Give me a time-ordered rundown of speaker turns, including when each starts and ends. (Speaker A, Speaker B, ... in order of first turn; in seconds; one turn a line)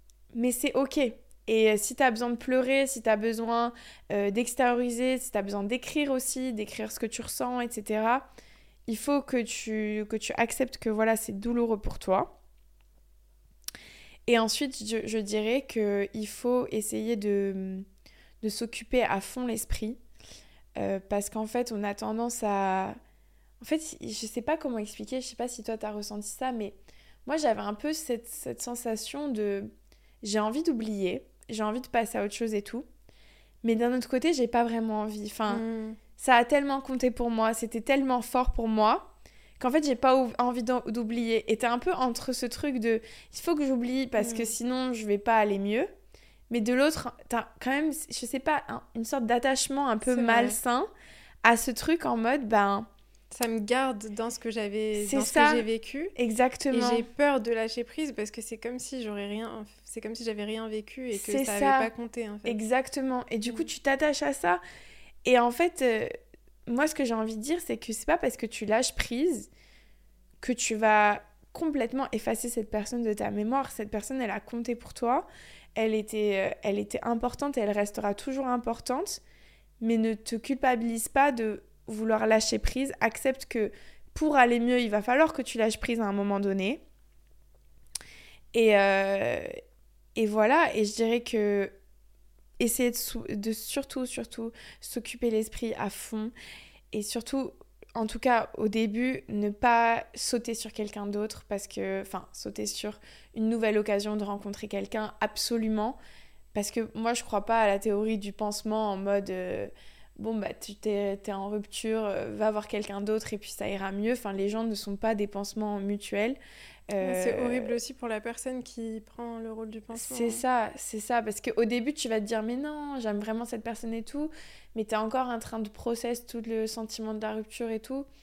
Speaker A: 0.3-8.3
Speaker A: 8.9-12.3
Speaker A: 14.2-17.9
Speaker A: 18.4-20.0
Speaker A: 20.8-23.0
Speaker A: 23.6-29.7
Speaker A: 30.2-32.9
Speaker A: 33.6-35.6
Speaker B: 35.5-36.0
Speaker A: 36.2-45.9
Speaker B: 44.2-44.5
Speaker A: 46.5-50.9
Speaker B: 50.0-50.6
Speaker A: 51.4-52.9
Speaker B: 53.3-56.1
Speaker A: 55.0-57.0
Speaker B: 56.7-62.6
Speaker A: 61.1-61.9
Speaker A: 62.4-64.6
Speaker A: 65.2-66.1
Speaker A: 66.7-69.5
Speaker A: 70.4-79.2
Speaker A: 79.8-86.8
Speaker A: 88.5-89.5
Speaker A: 90.1-91.7
Speaker A: 92.6-96.3
Speaker A: 96.9-106.0
Speaker A: 106.5-116.4
Speaker A: 116.9-117.8
Speaker B: 117.0-120.4
Speaker A: 119.9-128.1